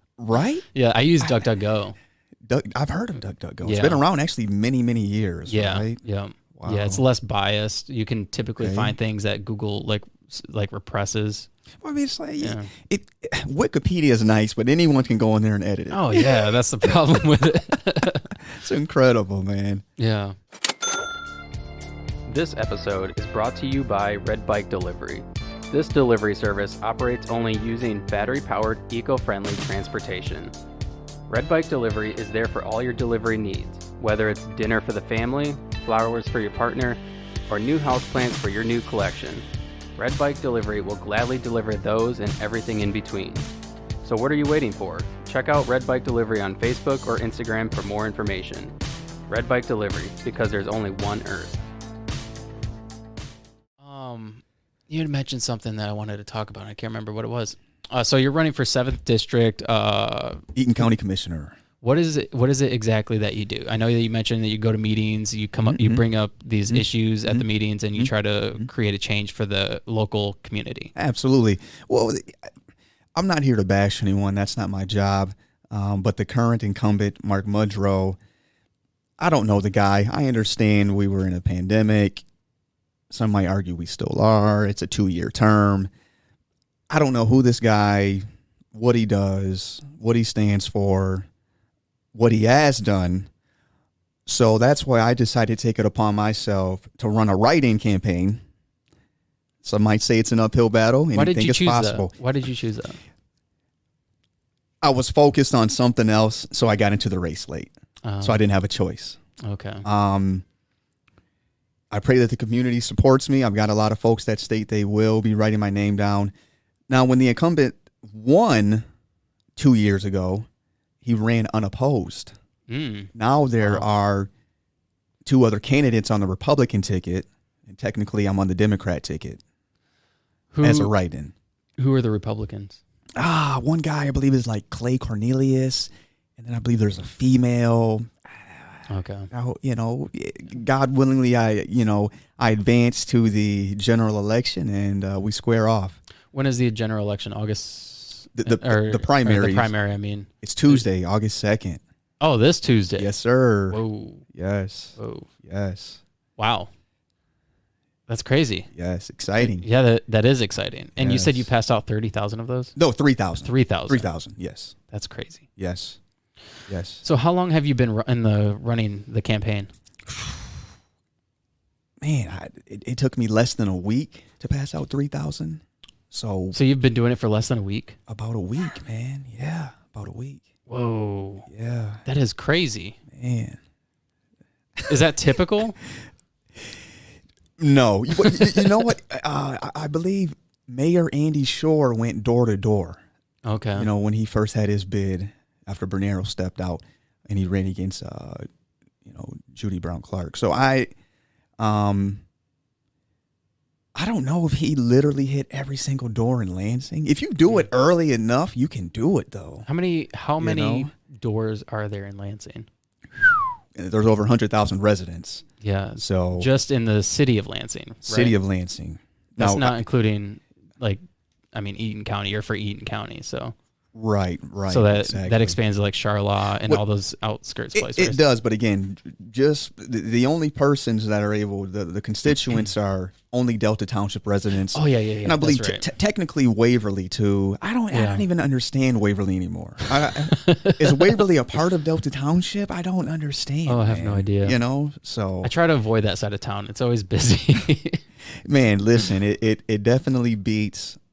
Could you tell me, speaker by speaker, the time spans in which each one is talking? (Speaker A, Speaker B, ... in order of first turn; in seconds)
Speaker A: 0.2-0.7, 1.2-1.5, 2.5-6.0, 6.5-7.0, 8.6-8.9, 11.8-17.0, 18.3-19.8, 60.6-61.5, 65.7-66.0, 66.7-68.7, 71.0-72.4, 73.2-78.2, 79.2-82.2, 83.1-85.9, 86.9-91.3, 92.1-93.3, 94.3-98.4, 99.6-102.1, 104.8-109.2, 109.8-110.4, 111.9-116.3, 116.9-118.8, 119.6-120.5, 121.0-122.3, 123.2-124.3, 125.2-129.4, 130.6-131.3, 133.2-146.0, 148.4-149.7, 150.4-151.8, 153.0-153.8, 154.3-156.0, 158.8-159.7, 161.0-161.5, 162.8-164.8, 165.6-166.0, 166.7-167.0, 172.0-176.6, 178.1-180.4, 181.5-182.0, 183.1-183.6, 187.6-193.0, 193.8-198.4, 199.1-200.9, 201.6-202.2, 203.9-209.7, 210.4-210.9, 213.7-215.4, 216.0-216.5, 218.0-219.8, 223.9-225.6, 227.8-245.5, 248.4-251.0
Speaker B: 0.7-2.0, 3.6-4.0, 5.5-11.5, 12.4-12.7, 15.9-18.3, 20.0-20.4, 22.3-30.5, 31.3-39.5, 40.0-43.5, 44.0-48.8, 49.3-51.6, 53.8-60.4, 61.8-70.9, 101.1-103.0, 108.0-108.4, 109.4-109.9, 122.7-123.9, 130.5-130.9, 131.8-132.8, 138.9-139.3, 146.3-150.8, 152.2-153.1, 153.7-154.2, 155.0-155.3, 156.4-156.7, 158.1-158.7, 159.4-162.8, 163.4-164.1, 164.9-165.5, 167.0-169.7, 176.5-178.0, 180.7-181.5, 182.1-183.0, 184.8-185.8, 193.4-193.9, 209.7-212.7, 215.6-218.4, 219.4-221.0, 221.5-223.5, 224.7-228.2, 234.7-235.9, 237.9-238.3, 240.4-241.2, 243.7-244.6, 245.4-248.0